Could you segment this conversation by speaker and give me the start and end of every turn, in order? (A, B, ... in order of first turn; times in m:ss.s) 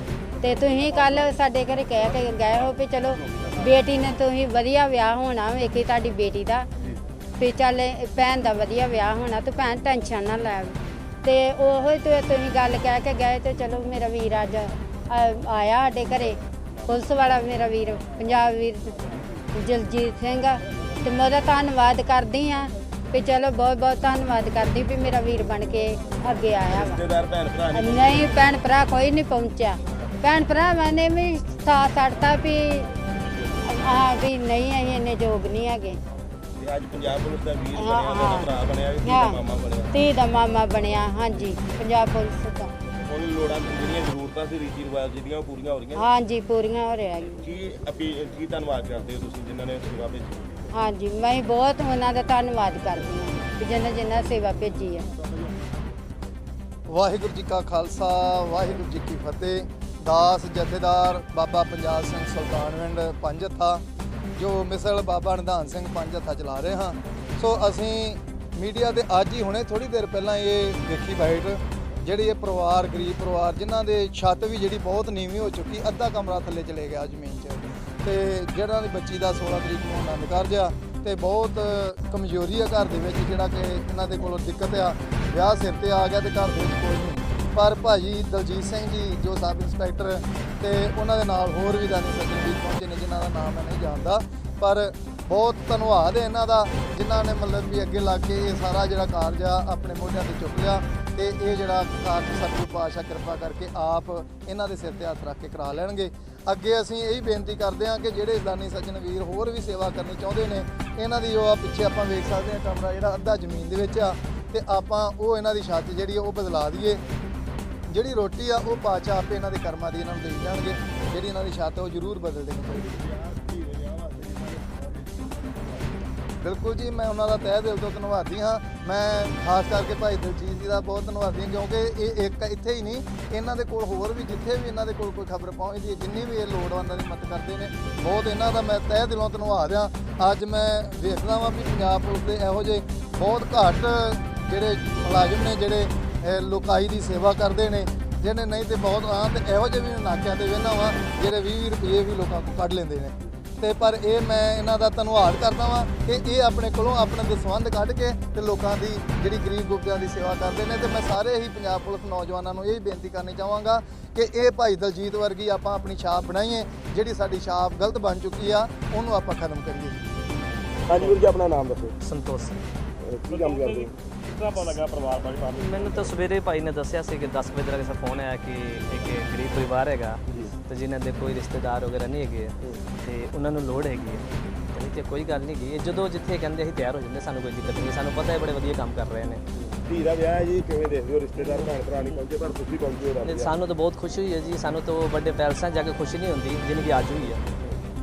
0:00.4-0:06.7 A
0:07.4-0:19.0 A
0:19.5-0:27.0 A
0:26.7-0:28.5 B
0:27.7-0:32.9 A
0:33.6-0:36.0 A
0:36.6-0:40.0 B
0:37.7-0:38.5 A
0:39.0-0:39.4 A
0:39.9-0:42.7 A
0:43.0-0:46.1 B
0:45.9-0:47.4 A
0:47.4-0:50.6 B
0:50.7-0:55.1 A
0:56.9-1:03.8 C
1:04.4-1:57.0 C
1:57.9-2:03.0 C
2:02.6-2:06.1 B
2:06.4-2:50.0 C
2:50.9-2:51.9 B
2:52.0-2:52.6 D
2:53.0-2:53.9 B
2:53.3-2:56.2 E
2:55.6-3:09.4 D
3:09.6-3:13.6 B
3:11.4-3:11.8 D
3:13.2-3:17.4 D